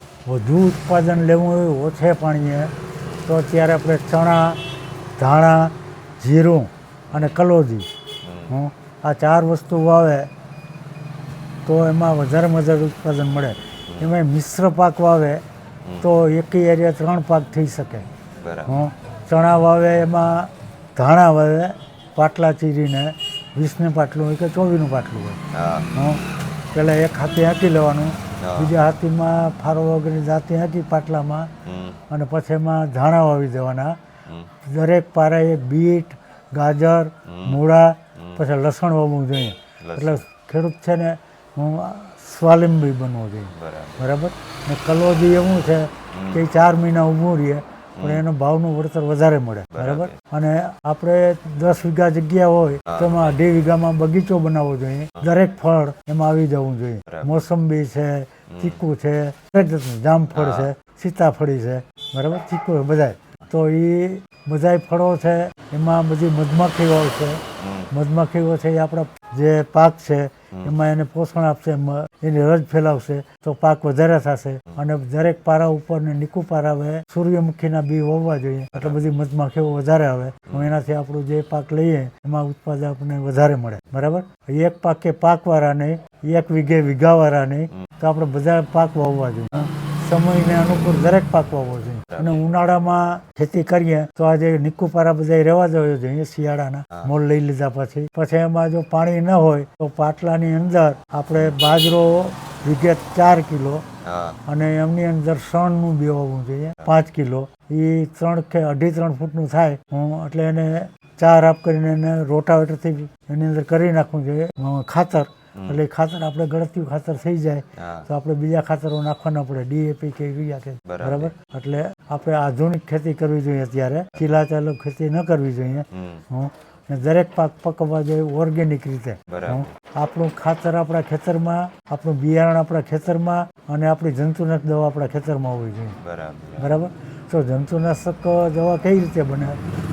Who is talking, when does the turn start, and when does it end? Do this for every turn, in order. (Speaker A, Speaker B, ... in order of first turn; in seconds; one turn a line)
Speaker A: 0.2-2.7
Speaker B: 3.0-3.3
Speaker A: 3.3-4.6
Speaker A: 5.2-7.9
Speaker B: 7.1-7.4
Speaker B: 8.2-8.6
Speaker A: 8.5-10.3
Speaker A: 11.7-15.4
Speaker A: 16.0-18.1
Speaker B: 18.4-18.8
Speaker A: 18.6-25.4
Speaker B: 25.5-25.9
Speaker A: 25.9-26.2
Speaker A: 26.7-31.5
Speaker B: 28.4-28.7
Speaker B: 31.6-32.0
Speaker A: 32.1-34.0
Speaker A: 34.6-103.8
Speaker B: 37.2-37.6
Speaker B: 38.1-38.4
Speaker B: 39.8-40.2
Speaker B: 43.5-44.1
Speaker B: 46.1-46.5
Speaker B: 48.0-48.2
Speaker B: 49.7-50.2
Speaker B: 52.9-53.4
Speaker B: 57.1-57.4
Speaker B: 58.5-58.8
Speaker B: 60.3-60.7
Speaker B: 67.6-67.9
Speaker B: 78.7-79.0
Speaker B: 80.5-80.8
Speaker B: 92.1-92.4
Speaker B: 104.0-104.4
Speaker A: 104.5-136.0
Speaker B: 115.5-115.8
Speaker B: 117.8-118.1
Speaker B: 120.8-121.3
Speaker B: 125.9-126.2
Speaker B: 129.3-129.7
Speaker B: 136.0-136.7
Speaker A: 136.6-139.6